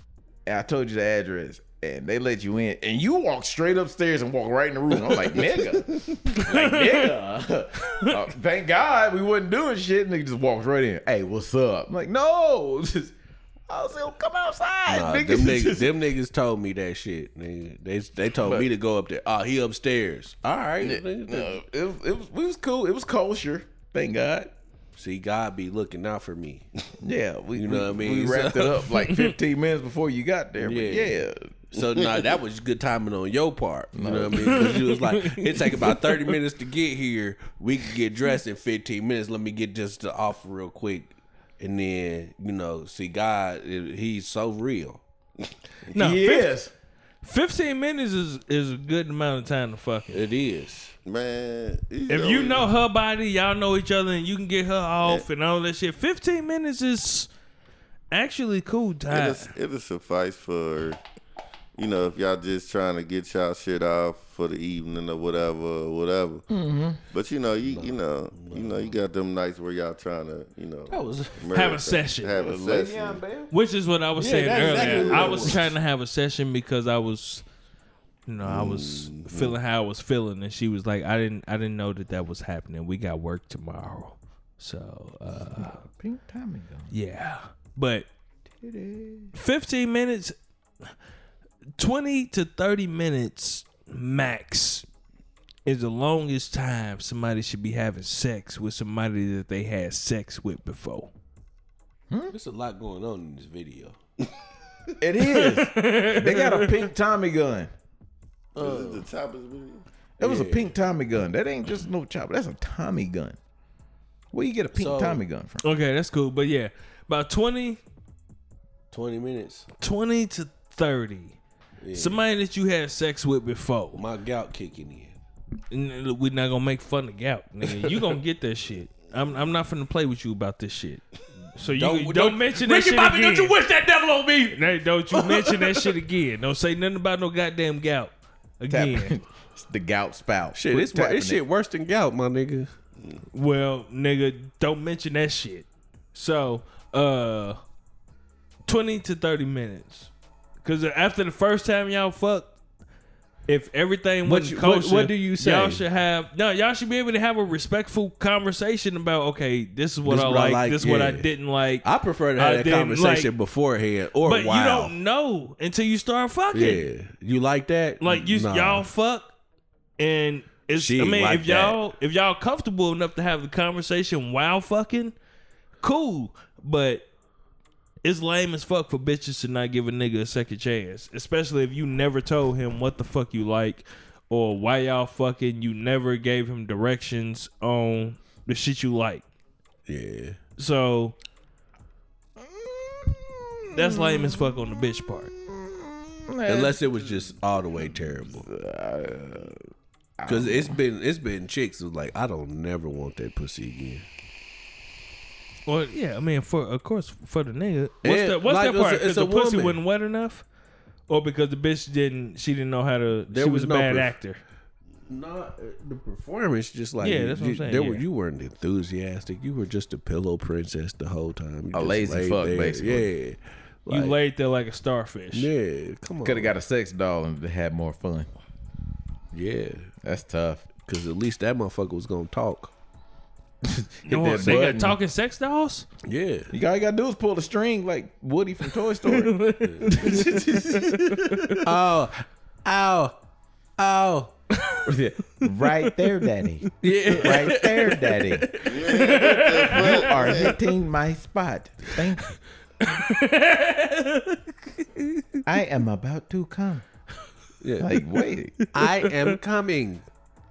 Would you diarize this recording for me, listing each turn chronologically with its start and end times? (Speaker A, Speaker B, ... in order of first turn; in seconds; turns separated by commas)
Speaker A: 0.5-13.2, Speaker B: 6.3-7.1, Speaker B: 7.8-8.2, Speaker A: 13.7-15.9, Speaker C: 14.9-21.6, Speaker A: 18.4-18.7, Speaker A: 20.8-24.5, Speaker C: 25.0-26.7, Speaker A: 27.0-31.5, Speaker C: 27.6-28.9, Speaker B: 29.1-29.3, Speaker C: 30.6-31.2, Speaker C: 31.7-45.0, Speaker D: 31.8-32.2, Speaker A: 34.0-34.9, Speaker B: 34.4-36.3, Speaker B: 45.9-46.5, Speaker A: 45.9-46.7, Speaker B: 47.2-50.2, Speaker C: 50.1-50.9, Speaker D: 51.0-52.7, Speaker B: 52.1-57.3, Speaker B: 58.1-59.5, Speaker D: 59.1-61.0, Speaker D: 61.8-66.5, Speaker A: 66.5-67.0, Speaker D: 67.1-73.2, Speaker C: 67.6-68.9, Speaker C: 70.9-71.5, Speaker B: 71.5-72.4, Speaker A: 72.3-73.5, Speaker B: 73.5-77.4, Speaker C: 74.2-75.7, Speaker D: 74.5-75.7, Speaker B: 78.3-85.8, Speaker D: 78.4-79.5, Speaker A: 85.4-86.9, Speaker B: 86.9-88.1, Speaker A: 88.6-89.3, Speaker B: 89.3-90.3, Speaker B: 91.8-94.9, Speaker B: 95.7-101.1, Speaker C: 102.3-104.0, Speaker A: 105.0-107.7, Speaker B: 105.3-106.8, Speaker C: 108.5-109.1, Speaker D: 108.6-109.8, Speaker A: 110.2-113.4, Speaker C: 110.2-110.7, Speaker A: 114.3-115.6, Speaker C: 114.8-115.2, Speaker B: 115.6-117.8, Speaker C: 118.9-119.7, Speaker B: 119.8-121.4, Speaker C: 121.8-122.2, Speaker B: 121.9-124.0, Speaker C: 124.0-125.2, Speaker B: 125.7-131.0, Speaker C: 127.7-128.0, Speaker B: 131.6-133.6, Speaker C: 131.6-135.9, Speaker B: 134.5-139.2, Speaker A: 138.7-141.4, Speaker C: 140.6-142.7, Speaker B: 143.3-147.6, Speaker B: 148.7-150.1, Speaker B: 150.6-152.6, Speaker B: 153.5-163.3, Speaker C: 154.3-155.8, Speaker C: 160.1-161.3, Speaker C: 161.8-164.9, Speaker B: 164.2-166.8, Speaker C: 166.5-168.9, Speaker B: 168.0-169.3, Speaker B: 170.0-175.2, Speaker C: 170.7-171.8, Speaker B: 175.8-177.1, Speaker B: 178.0-189.2, Speaker C: 189.9-190.4, Speaker B: 190.6-191.2, Speaker A: 192.4-194.8, Speaker B: 193.7-195.3, Speaker A: 195.4-199.7, Speaker C: 196.5-198.5, Speaker A: 200.2-200.8, Speaker C: 200.3-204.1, Speaker B: 205.7-210.4, Speaker C: 208.0-209.8, Speaker B: 211.1-214.4, Speaker C: 213.3-214.2, Speaker C: 215.1-224.2, Speaker B: 217.0-218.0, Speaker A: 221.7-223.1, Speaker B: 223.9-225.5, Speaker C: 225.3-226.5, Speaker A: 226.2-228.3, Speaker C: 229.3-229.9, Speaker A: 230.0-230.6, Speaker C: 230.9-232.7, Speaker A: 233.7-235.0, Speaker B: 234.1-235.9, Speaker C: 236.1-236.5, Speaker A: 236.5-241.5, Speaker B: 239.1-241.6, Speaker C: 239.6-240.6, Speaker C: 241.6-243.2, Speaker C: 243.8-244.3, Speaker B: 244.6-244.9, Speaker A: 244.9-248.5, Speaker C: 246.8-248.7, Speaker B: 248.5-250.5, Speaker D: 248.6-250.6, Speaker A: 249.7-252.4, Speaker B: 252.8-255.4, Speaker A: 255.5-256.8, Speaker C: 257.6-257.9, Speaker A: 257.8-258.6, Speaker C: 258.7-260.1, Speaker B: 258.8-259.4